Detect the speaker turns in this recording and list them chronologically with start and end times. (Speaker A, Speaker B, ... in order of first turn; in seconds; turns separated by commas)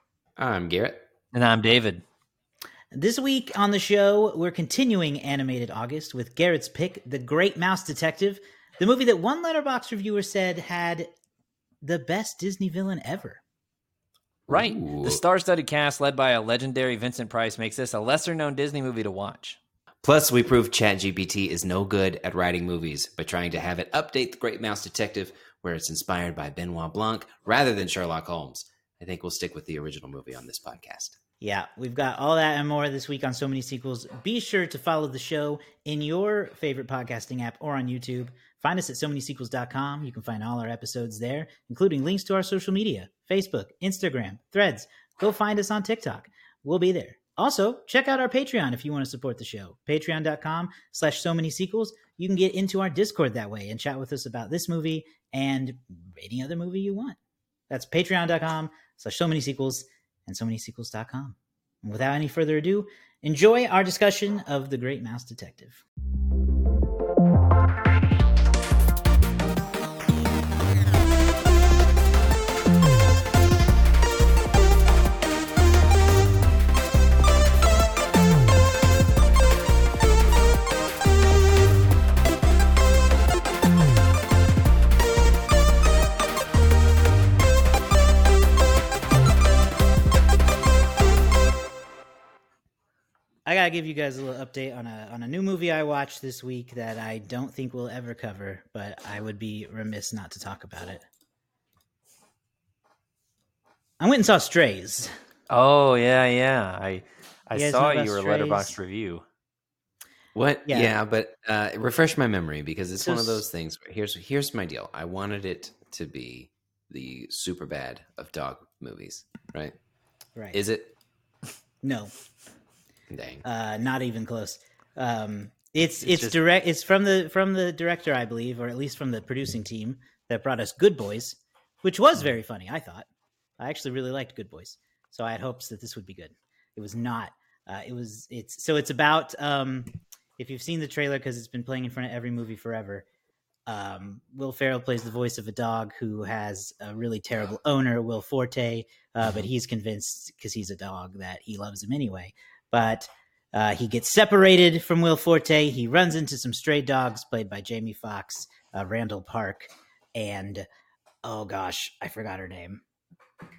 Speaker A: 0.4-1.0, Speaker B: 1.3-2.0, Speaker C: 2.9-11.1, Speaker C: 11.8-13.4, Speaker A: 14.5-15.2, Speaker B: 14.5-19.6, Speaker A: 20.0-31.2, Speaker C: 31.4-57.2, Speaker C: 57.7-65.8, Speaker C: 93.5-101.0, Speaker C: 104.0-105.1, Speaker B: 105.5-109.2, Speaker C: 107.5-108.8, Speaker A: 110.3-119.8, Speaker C: 110.7-110.9, Speaker C: 113.0-113.4, Speaker A: 120.5-120.9, Speaker C: 121.8-122.1, Speaker A: 123.1-123.4, Speaker C: 123.4-133.1, Speaker B: 126.0-126.4, Speaker C: 133.6-143.1, Speaker C: 143.7-160.7, Speaker C: 161.2-162.8